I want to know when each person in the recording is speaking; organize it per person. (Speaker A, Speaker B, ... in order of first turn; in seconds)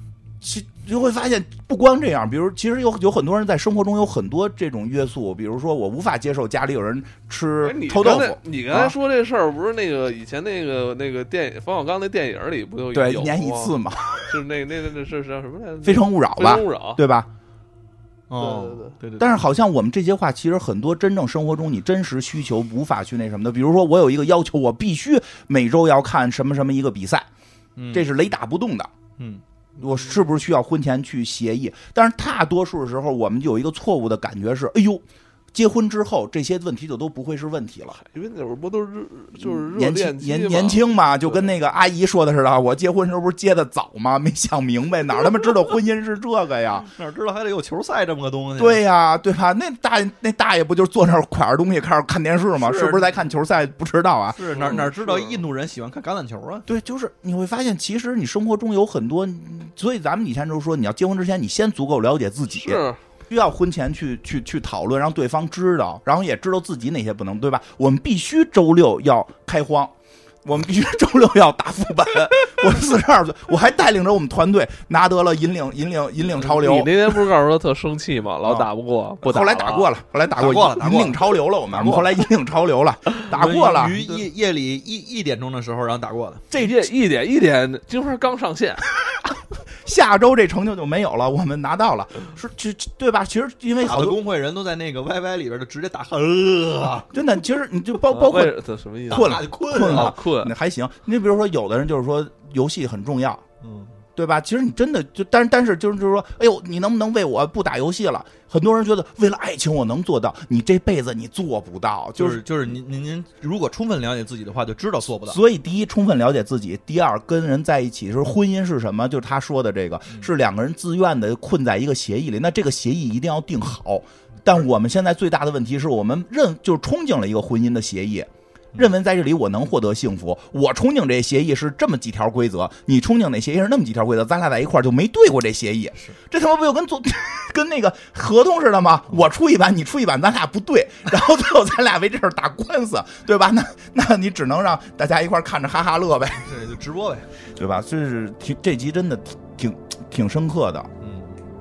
Speaker A: 0.4-8.9, 12.9-14.4, 15.8-17.3, 19.2-27.3, 27.9-28.9, 29.8-38.0, 39.4-46.9, 48.6-54.9, 56.6-77.2, 78.4-78.7, 79.2-84.2, 89.8-94.2, 97.1-98.6, 99.1-103.4, 104.2-112.4, 115.3-146.5, 147.5-150.9
Speaker B: 7.6-13.7, 14.2-17.0, 18.4-18.9, 38.0-41.5, 54.5-55.4, 62.5-63.0, 76.4-79.9, 86.5-88.8, 98.1-100.5
Speaker C: 18.3-19.3, 27.8-28.1, 29.2-29.4, 47.0-48.8, 52.6-53.1, 54.3-56.7, 80.3-82.2, 83.2-86.5, 93.8-97.1, 99.1-100.1, 103.6-104.0, 112.2-115.4, 146.4-147.3, 151.0-151.4